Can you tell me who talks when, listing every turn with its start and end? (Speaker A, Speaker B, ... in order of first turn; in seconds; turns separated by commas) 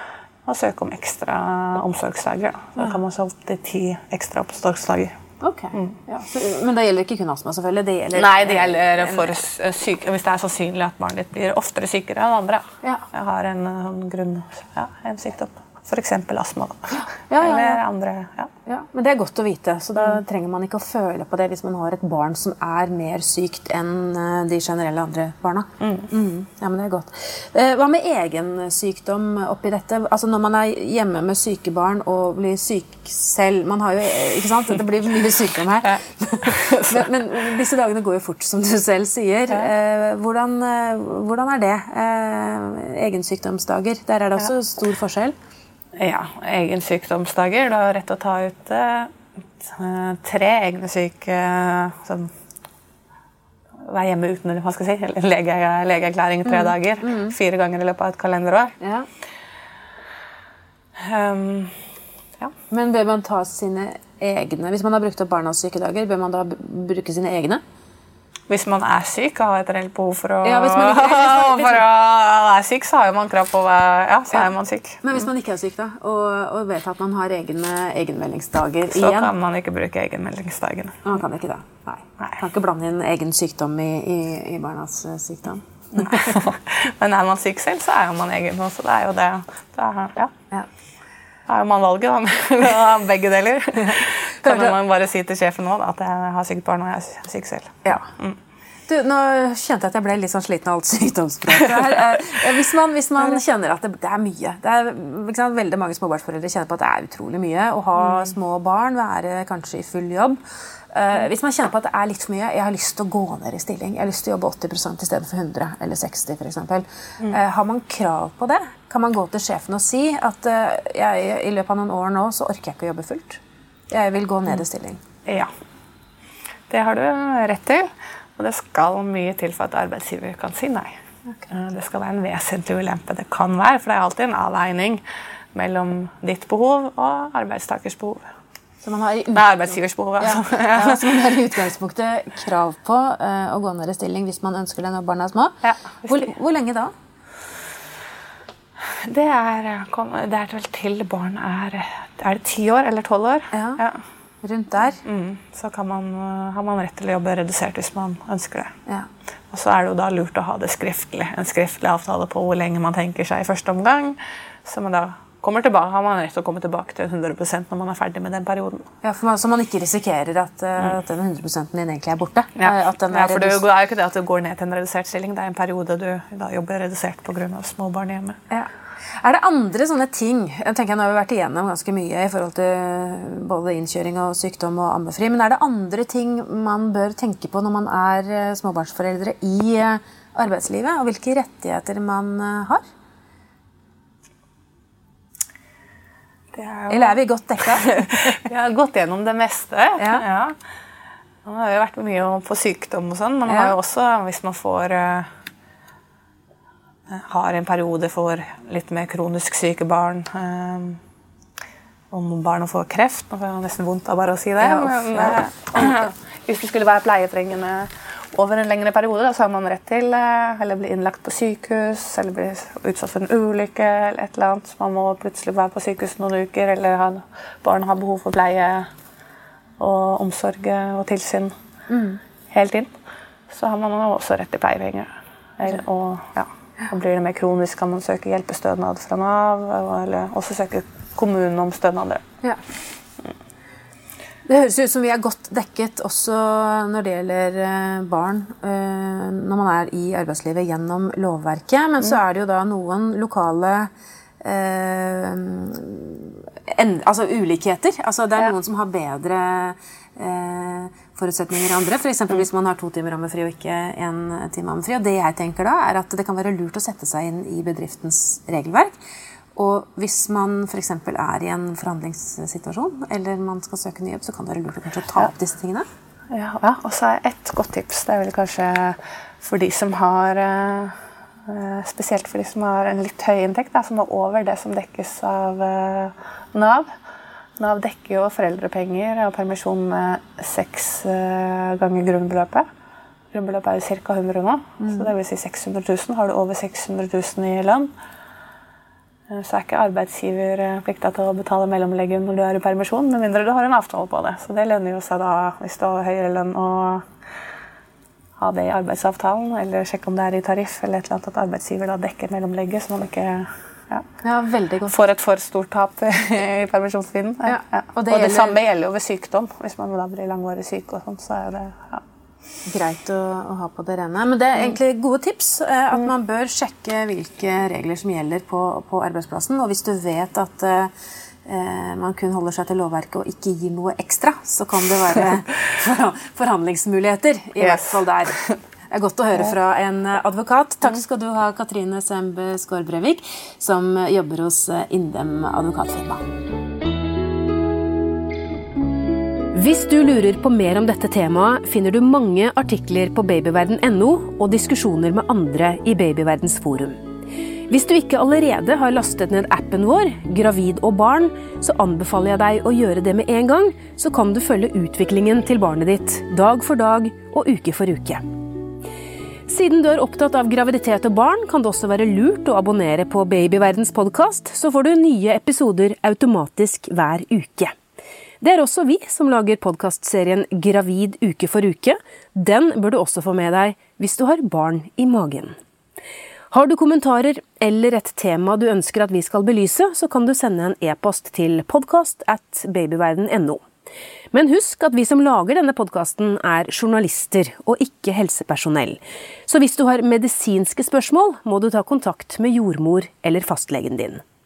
Speaker A: 0.5-5.1, Speaker B: 5.4-9.3, Speaker A: 8.2-18.5, Speaker B: 16.9-17.8, Speaker B: 18.6-45.4, Speaker A: 25.8-26.1, Speaker A: 36.6-37.0, Speaker A: 46.0-52.3, Speaker A: 53.9-58.7, Speaker B: 56.4-57.4, Speaker B: 58.8-59.1, Speaker A: 61.1-61.7, Speaker B: 62.7-67.6, Speaker A: 68.5-75.2, Speaker B: 70.4-71.9, Speaker B: 74.3-79.3, Speaker A: 78.9-81.0, Speaker B: 81.0-86.2, Speaker A: 85.9-90.3, Speaker A: 91.5-98.4, Speaker B: 94.4-94.8, Speaker B: 98.9-110.4, Speaker A: 108.0-108.3, Speaker B: 110.9-123.4, Speaker B: 123.9-125.0, Speaker A: 126.7-130.9, Speaker A: 131.5-135.0, Speaker A: 135.5-138.2, Speaker B: 138.8-139.5, Speaker A: 139.3-141.3, Speaker B: 140.2-145.6, Speaker A: 145.6-146.3, Speaker B: 146.1-146.9, Speaker A: 149.1-154.0, Speaker B: 153.5-153.8, Speaker B: 154.4-155.0, Speaker A: 155.0-158.7, Speaker A: 159.5-168.8, Speaker B: 169.0-173.7, Speaker A: 172.6-178.4, Speaker B: 179.2-192.8, Speaker A: 196.5-200.5, Speaker B: 196.9-198.4, Speaker B: 200.0-200.2, Speaker A: 201.4-205.3, Speaker B: 203.5-203.7, Speaker A: 207.1-211.0, Speaker A: 212.1-228.9, Speaker B: 214.6-215.9, Speaker A: 229.8-231.5, Speaker B: 231.9-232.2, Speaker A: 232.5-232.9, Speaker A: 233.5-242.2, Speaker B: 244.4-253.9, Speaker B: 254.4-268.9, Speaker B: 269.5-275.9, Speaker A: 276.3-286.9, Speaker A: 287.6-292.6, Speaker A: 293.3-297.9, Speaker B: 294.8-295.1, Speaker A: 299.3-307.0, Speaker A: 308.4-314.0, Speaker B: 314.2-315.0, Speaker A: 314.9-322.0, Speaker B: 317.4-318.6, Speaker B: 322.7-330.9, Speaker B: 331.4-338.4, Speaker A: 337.6-338.0, Speaker B: 338.9-346.2, Speaker B: 349.5-357.0, Speaker B: 357.7-368.2, Speaker B: 369.5-377.7, Speaker B: 378.4-385.5, Speaker B: 386.5-393.6, Speaker B: 394.3-404.2